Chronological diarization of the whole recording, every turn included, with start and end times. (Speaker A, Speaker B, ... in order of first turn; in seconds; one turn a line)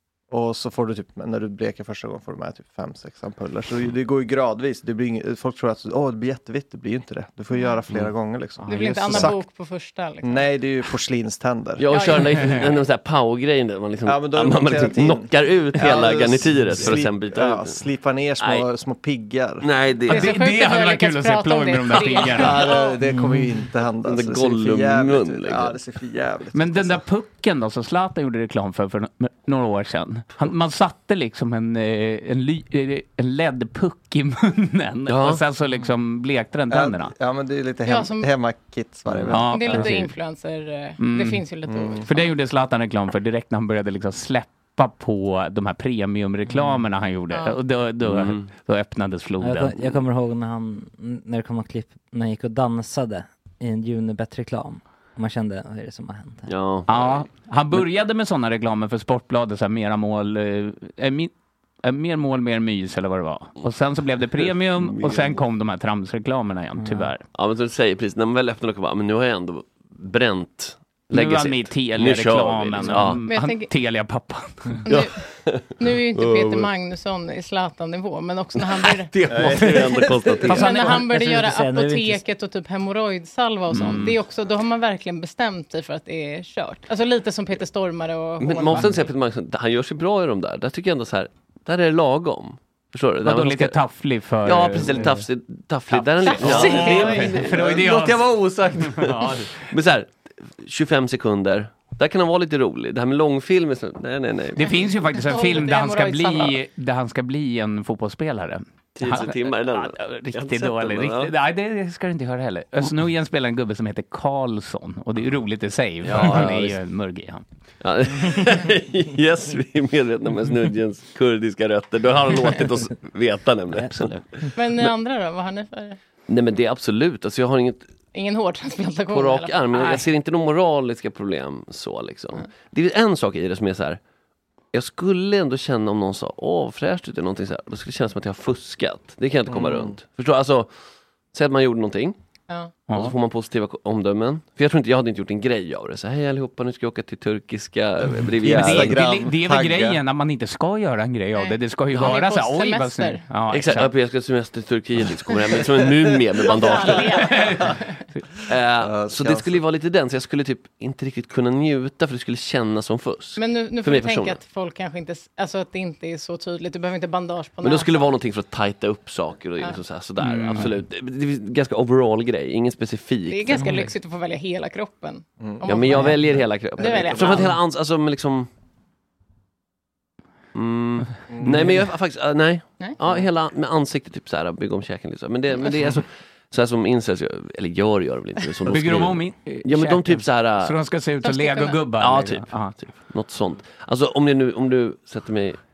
Speaker A: 0.3-9.4
Speaker B: 8.6-9.4
Speaker C: 8.7-10.5
Speaker A: 10.2-11.8
Speaker D: 11.8-17.9
Speaker C: 11.9-12.6
Speaker B: 12.3-12.6
Speaker A: 14.0-19.7
Speaker D: 18.4-18.7
Speaker D: 19.6-20.3
Speaker B: 20.0-22.8
Speaker C: 20.1-22.9
Speaker A: 22.3-27.0
Speaker E: 23.0-23.7
Speaker D: 24.0-25.8
Speaker B: 26.5-37.1
Speaker D: 35.1-35.4
Speaker A: 36.7-39.9
Speaker C: 37.9-38.3
Speaker D: 39.1-39.4
Speaker B: 39.3-40.1
Speaker C: 39.5-42.3
Speaker B: 41.0-41.5
Speaker A: 41.7-42.1
Speaker B: 42.0-50.0
Speaker D: 48.0-48.5
Speaker E: 49.4-56.5
Speaker D: 56.5-57.3
Speaker B: 56.9-67.2
Speaker D: 64.3-65.4
Speaker E: 66.8-67.1
Speaker D: 67.3-73.2
Speaker B: 71.1-74.8
Speaker C: 73.3-73.7
Speaker C: 74.8-79.1
Speaker D: 74.9-76.7
Speaker D: 78.8-80.9
Speaker A: 79.3-80.5
Speaker B: 80.4-81.2
Speaker C: 80.5-89.0
Speaker E: 81.0-82.2
Speaker B: 83.7-84.2
Speaker D: 88.4-93.8
Speaker B: 93.2-95.3
Speaker D: 94.4-104.9
Speaker B: 95.9-99.6
Speaker C: 96.2-97.5
Speaker B: 104.5-117.4
Speaker C: 104.6-106.6
Speaker D: 109.0-111.3
Speaker D: 116.0-116.8
Speaker D: 117.8-124.1
Speaker B: 123.9-124.2
Speaker C: 124.5-126.0
Speaker D: 126.3-127.9
Speaker C: 128.1-130.1
Speaker D: 129.1-134.0
Speaker D: 134.7-140.7
Speaker A: 139.5-140.0
Speaker D: 141.3-142.2
Speaker B: 142.9-143.1
Speaker D: 142.9-149.0
Speaker A: 148.4-150.0
Speaker B: 148.5-153.9
Speaker C: 151.3-153.2
Speaker D: 153.5-157.4
Speaker C: 156.4-158.0
Speaker B: 157.2-157.7
Speaker D: 158.4-164.4
Speaker A: 158.8-159.6
Speaker C: 163.4-168.1
Speaker D: 167.6-173.8
Speaker B: 170.2-170.8
Speaker C: 173.3-177.5
Speaker A: 175.4-177.5
Speaker D: 175.6-178.5
Speaker D: 180.5-190.8
Speaker A: 181.3-181.7
Speaker B: 188.7-192.8
Speaker C: 191.2-191.8
Speaker D: 192.0-195.6